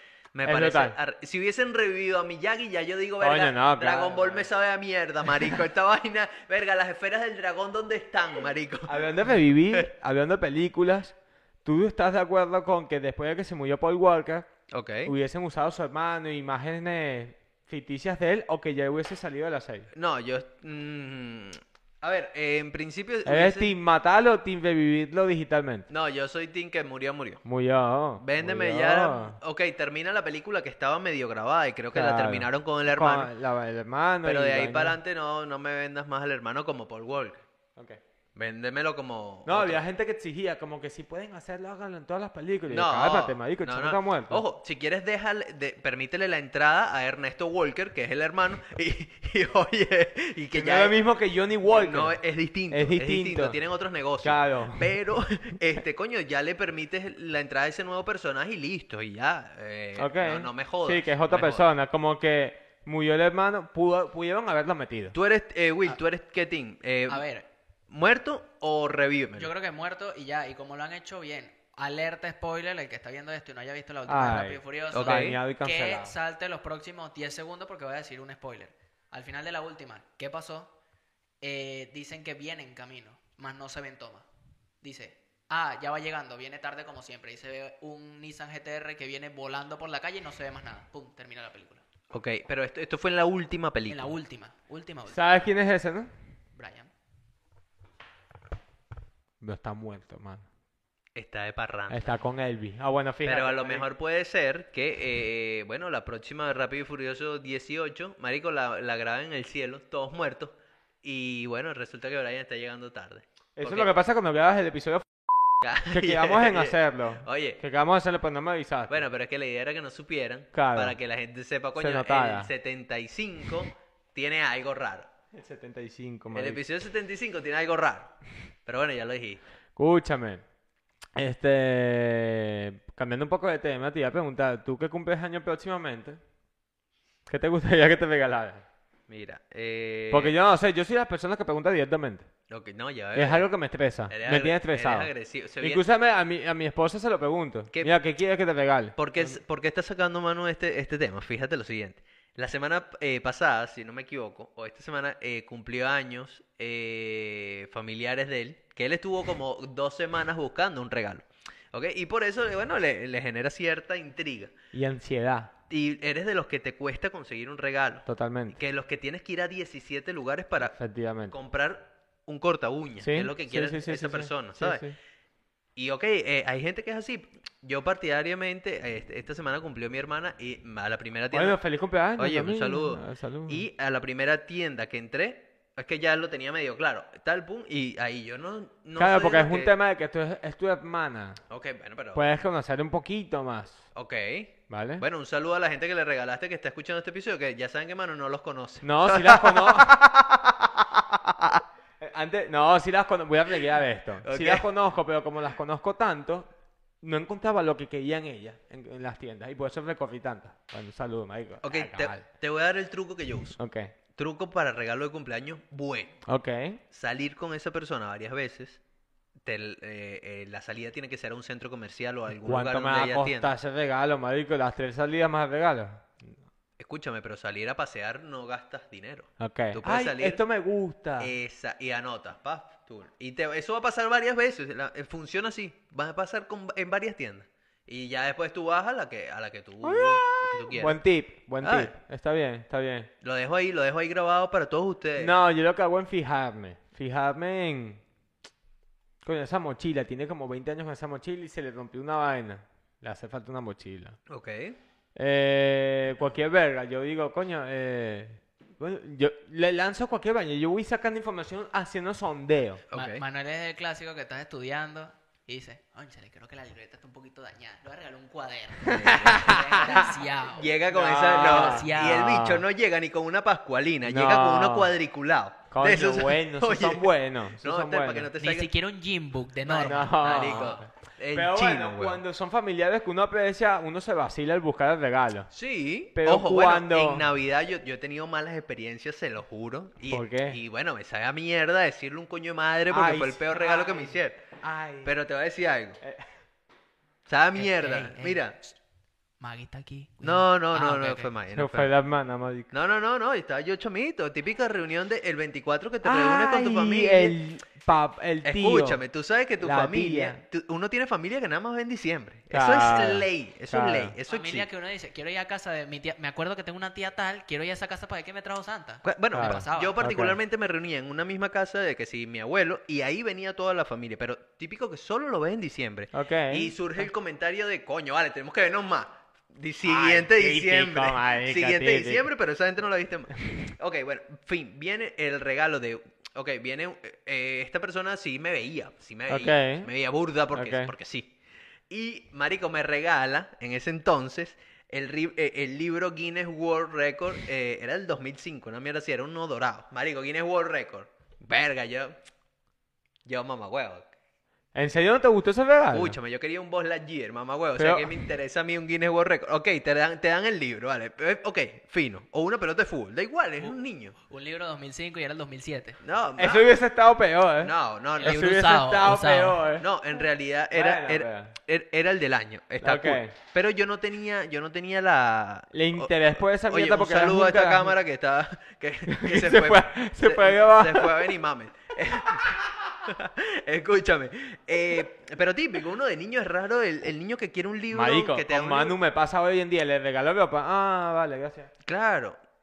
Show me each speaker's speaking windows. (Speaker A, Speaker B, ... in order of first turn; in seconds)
Speaker A: 0.3-9.9, 14.7-15.1, 19.9-23.7, 25.9-27.4, 28.2-33.3, 34.2-37.4, 38.3-39.8, 42.7-50.9, 51.6-61.6, 65.1-67.2, 67.9-69.5, 74.9-75.4, 92.1-94.1, 101.1-102.1, 103.2-113.9, 115.6-117.6, 118.9-125.1, 126.3-128.1, 128.7-129.4, 139.1-140.3, 142.5-143.5, 144.1-145.8, 148.9-164.5, 165.7-170.8, 171.3-174.8, 175.8-181.6, 182.2-189.7, 191.5-192.3, 193.9-200.2, 204.2-204.7, 211.6-213.6, 214.2-216.2, 216.9-218.8, 219.4-223.5, 226.8-230.4, 231.2-241.0, 241.6-241.9, 243.2-245.3, 254.3-254.8, 262.9-263.2, 268.8-278.7, 279.6-282.2, 285.5-294.4, 295.0-296.0, 297.3-298.6, 300.2-301.9, 302.7-307.4, 308.4-314.7, 319.0-341.3, 341.9-352.1, 353.2-354.1, 355.9-364.1, 366.0-366.7, 367.6-368.4, 369.8-376.1, 376.6-388.9, 391.8-392.4
Speaker B: 0.4-0.9, 3.2-4.5, 8.9-14.5, 15.1-19.9, 23.2-25.9, 27.4-29.4, 31.9-35.0, 37.8-38.0, 39.5-44.4, 50.5-52.1, 52.7-53.6, 54.2-54.9, 60.0-65.1, 74.1-76.1, 95.1-96.1, 99.4-100.5, 101.9-103.8, 113.5-115.1, 115.9-119.0, 120.5-121.0, 121.8-122.5, 125.3-126.6, 129.8-130.4, 131.2-136.2, 137.3-138.6, 140.1-142.3, 143.1-149.4, 164.7-165.5, 168.1-168.6, 170.7-171.3, 173.0-174.9, 181.3-183.6, 189.0-191.4, 192.1-193.8, 194.7-195.0, 198.8-201.2, 202.0-206.5, 207.0-212.2, 213.6-213.9, 216.2-216.8, 222.3-226.3, 229.4-231.3, 239.8-243.1, 245.2-248.0, 249.2-254.2, 255.1-262.8, 268.9-270.1, 270.9-272.6, 274.1-274.9, 275.7-278.3, 279.8-285.5, 286.1-287.3, 290.1-290.6, 292.9-295.1, 296.0-296.3, 301.5-302.7, 306.0-309.0, 309.6-310.4, 312.5-314.1, 319.3-320.4, 326.1-326.8, 329.8-332.3, 339.3-339.9, 340.5-340.9, 354.7-356.2, 357.8-358.2, 366.4-369.9, 370.7-371.5, 372.8-373.3, 375.7-377.9, 379.1-381.4, 387.9-391.7
Speaker C: 67.1-67.5, 69.4-80.7, 81.4-84.2, 84.8-91.8, 93.9-95.2, 96.5-96.9, 262.9-272.4, 278.4-280.8, 297.6-298.4, 299.4-301.3, 314.3-320.0, 363.6-366.0, 368.2-369.6